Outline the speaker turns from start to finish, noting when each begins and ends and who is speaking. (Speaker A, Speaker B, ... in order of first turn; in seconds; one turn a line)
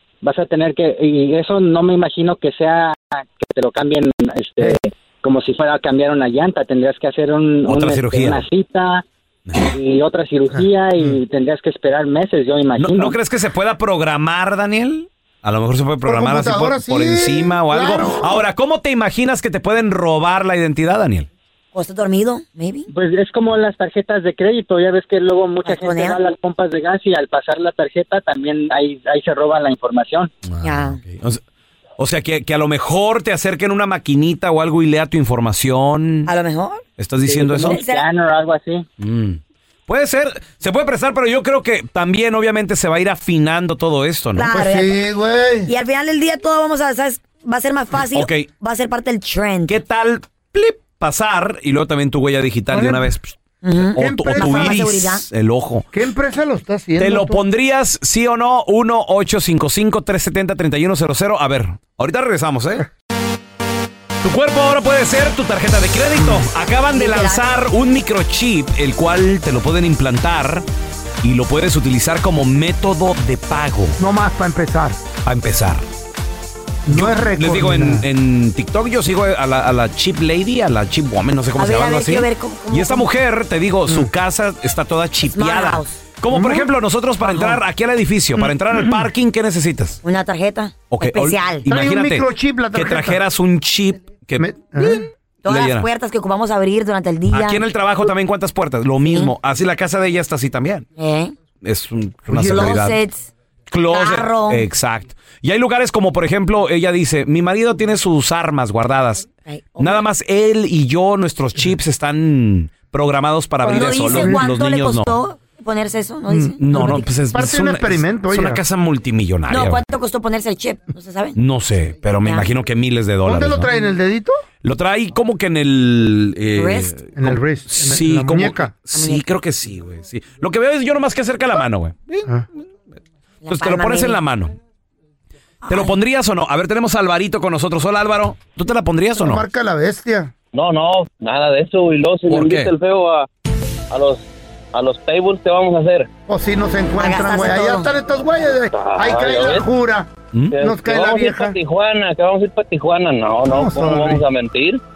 Speaker A: 0.2-9.1
Speaker B: 7.7-8.4
Speaker A: 9.6-13.2
Speaker C: 10.6-11.2
Speaker B: 12.8-21.3
Speaker C: 16.1-18.4
Speaker D: 21.7-22.9
Speaker A: 22.9-30.3
Speaker D: 25.6-26.2
Speaker B: 30.5-31.4
Speaker D: 30.6-31.0
Speaker B: 32.0-36.3
Speaker D: 36.3-36.8
Speaker B: 37.0-37.8
Speaker A: 37.3-38.9
Speaker D: 37.7-38.1
Speaker B: 39.0-44.5
Speaker D: 44.4-45.0
Speaker C: 44.5-45.7
Speaker D: 45.7-49.8
Speaker B: 48.1-48.5
Speaker B: 49.7-55.9
Speaker C: 52.7-53.1
Speaker D: 53.6-55.2
Speaker C: 54.0-54.8
Speaker C: 55.9-57.4
Speaker B: 57.0-62.9
Speaker B: 64.2-70.7
Speaker D: 66.9-67.4
Speaker B: 71.2-74.0
Speaker C: 74.0-75.0
Speaker B: 75.2-75.8
Speaker C: 76.9-78.0
Speaker B: 76.9-90.0
Speaker D: 81.6-83.1
Speaker D: 85.3-86.0
Speaker C: 86.3-86.7
Speaker D: 87.2-87.6
Speaker D: 90.0-91.7
Speaker B: 90.9-94.5
Speaker C: 91.7-93.2
Speaker C: 94.4-95.1
Speaker D: 94.8-97.6
Speaker B: 95.5-95.9
Speaker B: 97.3-100.8
Speaker D: 101.0-101.3
Speaker B: 101.6-103.0
Speaker C: 102.3-102.8
Speaker D: 102.5-103.3
Speaker B: 103.7-109.3
Speaker D: 103.9-104.7
Speaker D: 109.5-110.0
Speaker B: 109.8-115.2
Speaker D: 113.6-116.6
Speaker C: 113.7-114.4
Speaker C: 116.3-118.6
Speaker B: 116.6-119.8
Speaker D: 119.5-121.4
Speaker B: 121.4-123.7
Speaker C: 123.3-124.4
Speaker B: 124.6-132.2
Speaker D: 126.5-126.9
Speaker C: 127.2-128.7
Speaker D: 128.9-129.2
Speaker D: 133.4-134.2
Speaker B: 133.5-134.6
Speaker D: 135.6-135.9
Speaker B: 135.7-139.4
Speaker C: 139.2-140.3
Speaker E: 140.5-143.3
Speaker B: 142.3-142.7
Speaker E: 143.9-146.1
Speaker C: 146.3-151.6
Speaker D: 147.0-147.9
Speaker E: 148.7-149.7
Speaker E: 150.5-154.8
Speaker C: 153.5-154.2